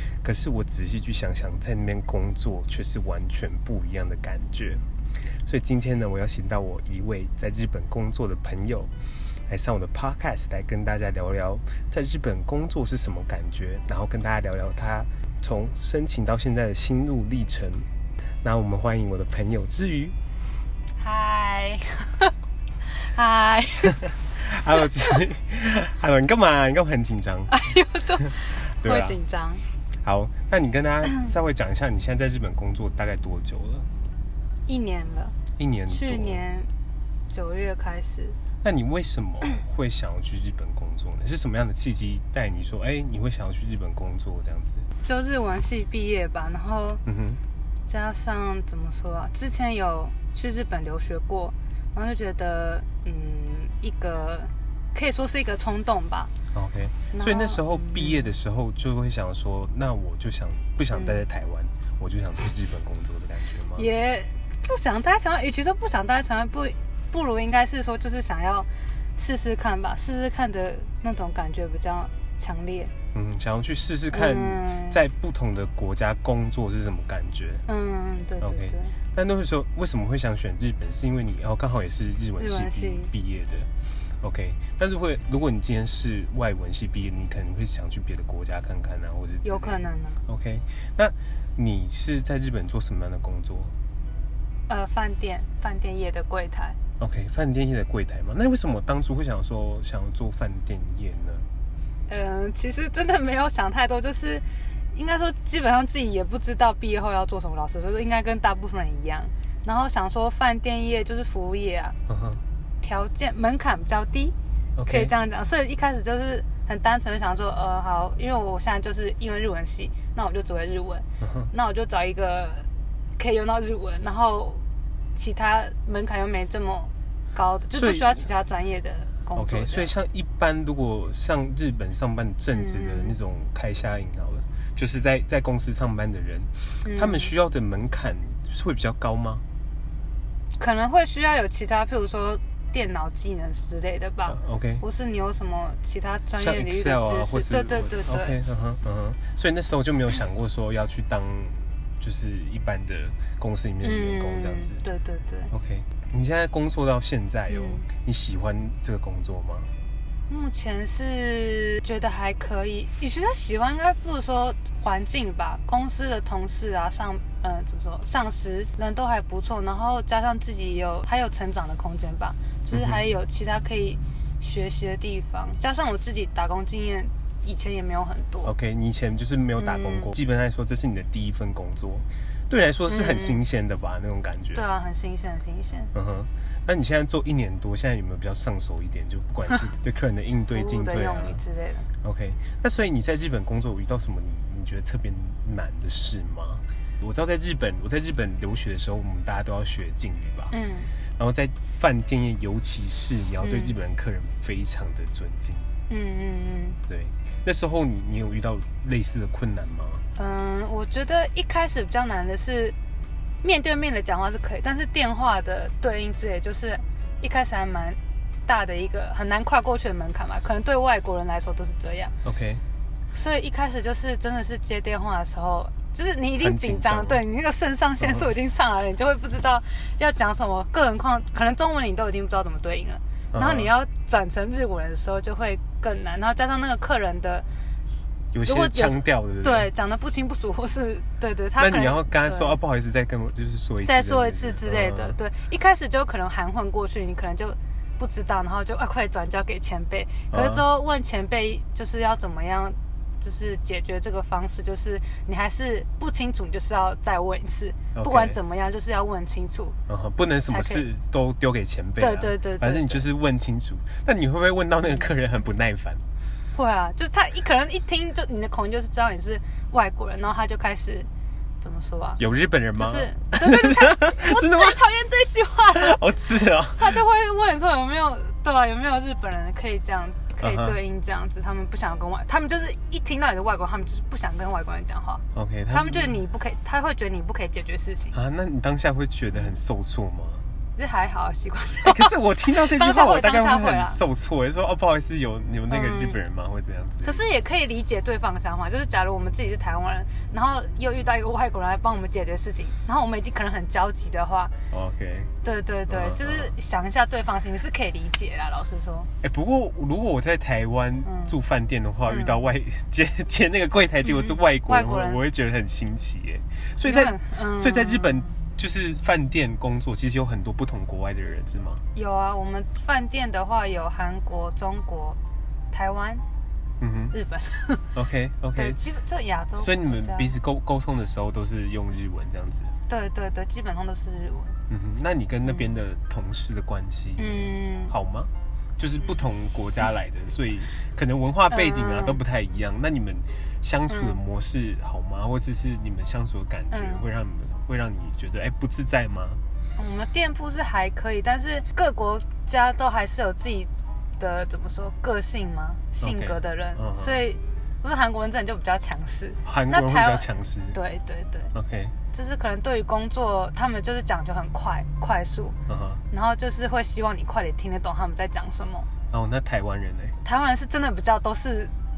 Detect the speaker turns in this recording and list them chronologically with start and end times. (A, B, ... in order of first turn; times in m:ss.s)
0:00.2-0:04.8 A
0:05.4-0:08.9 A
0:09.5-0:17.9 A
0:18.4-0:20.2 A
0:21.0-0:22.3 B
0:22.8-0:24.0 B
0:24.2-0:27.7 A
0:27.5-0:29.6 B
0:28.3-0:29.2 A
0:30.0-0:33.9 A
0:34.6-0:35.4 B
0:35.6-0:36.4 A
0:35.9-0:36.7 B
0:37.3-0:38.4 B
0:38.6-0:44.9 A
0:45.0-0:47.0 B
0:47.0-0:47.4 A
0:47.8-0:56.3 B
0:56.5-1:03.9 A
0:57.1-0:58.3 B
1:00.9-1:01.2 B
1:03.8-1:12.9 B
1:13.1-1:17.6 A
1:14.1-1:15.0 B
1:17.7-1:18.9 B
1:18.4-1:23.7 A
1:22.4-1:23.1 B
1:24.2-1:33.7 A
1:29.4-1:30.2 B
1:34.7-1:36.8 B
1:37.0-1:41.5 A
1:42.1-1:52.0 B
1:52.1-1:52.4 A
1:52.8-1:54.3 B
1:54.8-1:55.1 A
1:54.8-2:04.6 B
2:01.2-2:01.5 A
2:05.1-2:09.9 B
2:07.7-2:08.3 A
2:09.3-2:19.4 A
2:12.5-2:13.1 B
2:16.8-2:17.3 B
2:20.6-2:28.4 B
2:24.3-2:24.8 A
2:26.4-2:34.8 A
2:33.8-2:35.5 B
2:35.5-2:39.7 A
2:37.5-2:37.8 B
2:40.3-2:58.5 B
2:52.7-2:53.0 A
2:58.4-3:04.6 A
2:59.6-3:00.1 B
3:02.9-3:03.4 B
3:04.5-3:05.9 B
3:05.9-3:11.4 A
3:10.5-3:11.9 B
3:12.0-3:20.5 A
3:20.5-3:20.9 B
3:21.2-3:25.7 A
3:23.4-3:23.7 B
3:25.9-3:26.8 B
3:26.8-3:30.0 A
3:30.1-3:32.8 B
3:33.4-3:42.1 B
3:42.2-3:42.6 A
3:43.1-3:57.4 B
3:46.4-3:47.2 A
3:48.0-3:48.3 A
3:53.3-3:53.7 A
3:58.3-3:59.7 A
3:58.4-4:02.6 B
4:01.6-4:05.2 A
4:03.8-4:19.8 B
4:10.3-4:10.6 A
4:17.9-4:18.4 A
4:19.9-4:26.0 A
4:20.5-4:20.9 B
4:22.0-4:23.0 B
4:26.5-4:31.1 B
4:31.6-4:32.2 B
4:32.2-4:34.8 A
4:32.8-4:36.0 B
4:35.7-4:37.0 A
4:36.7-4:48.2 B
4:40.4-4:40.8 A
4:45.3-4:46.2 A
4:48.1-4:50.4 A
4:50.8-4:54.0 B
4:51.8-4:57.2 A
4:55.7-4:56.2 B
4:57.0-5:04.5 B
5:04.7-5:05.3 A
5:05.4-5:09.1 B
5:05.9-5:06.5 A
5:09.2-5:21.8 A
5:11.0-5:11.3 B
5:12.1-5:12.4 B
5:14.0-5:15.2 B
5:16.8-5:18.3 B
5:21.9-5:25.2 B
5:25.7-5:26.2 B
5:26.8-5:27.1 A
5:27.1-5:27.9 B
5:27.9-5:28.8 A
5:28.5-5:30.3 B
5:29.6-5:32.7 A
5:32.9-5:34.6 B
5:34.7-5:49.4 A
5:37.2-5:37.9 B
5:41.5-5:42.2 B
5:43.9-5:44.2 B
5:46.7-5:47.0 B
5:49.8-6:01.5 B
5:56.0-5:57.2 A
5:59.4-6:00.8 A
6:01.5-6:01.9 A
6:02.1-6:05.6 B
6:05.7-6:06.0 A
6:06.1-6:08.9 B
6:09.1-6:10.2 A
6:10.2-6:11.7 B